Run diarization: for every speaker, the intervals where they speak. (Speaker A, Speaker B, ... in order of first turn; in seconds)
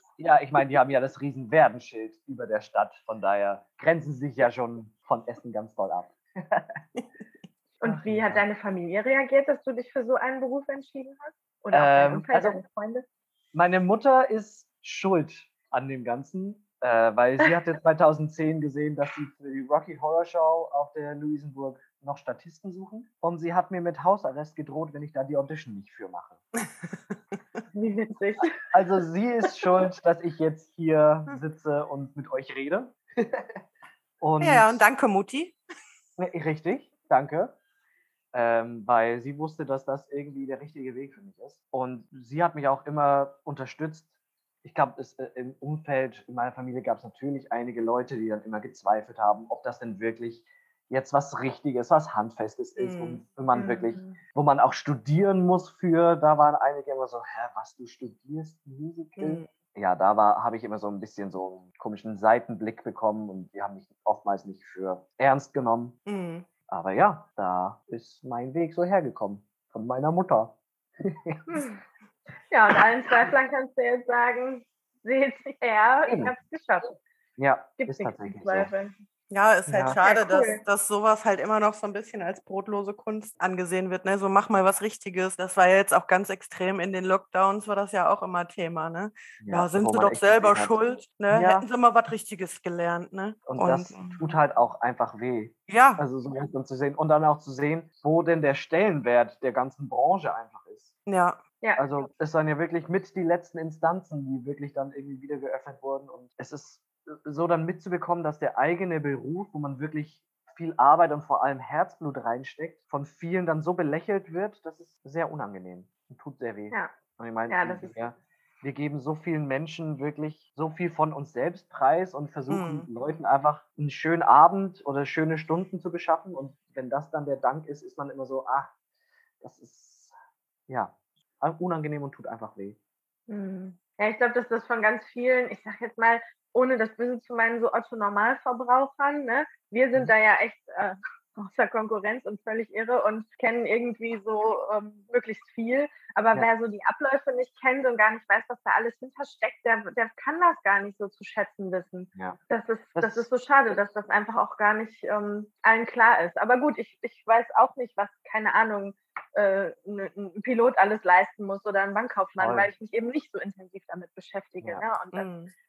Speaker A: 0.2-6.8, 7.8-8.4, 11.7-12.6, 13.5-26.4, 28.7-33.6, 34.2-34.8, 36.2-37.5, 38.3-44.1, 44.6-66.0, 66.7-71.6, 76.1-76.3, 77.4-78.7, 79.7-80.0, 89.4-90.8, 91.3-91.7, 93.5-101.0, 101.8-128.7, 129.4-130.2, 130.7-132.8, 153.0-153.3, 162.4-162.7
Speaker B: 7.8-13.1, 27.7-28.6, 53.5-54.2, 71.5-71.8, 72.5-77.0, 77.8-79.0, 80.0-80.6, 117.5-118.0, 133.3-165.3
Speaker C: 34.4-35.6, 52.8-53.2, 59.2-59.5, 66.1-66.5, 79.3-94.2, 95.7-96.0, 101.1-101.4, 122.5-122.9, 165.1-165.5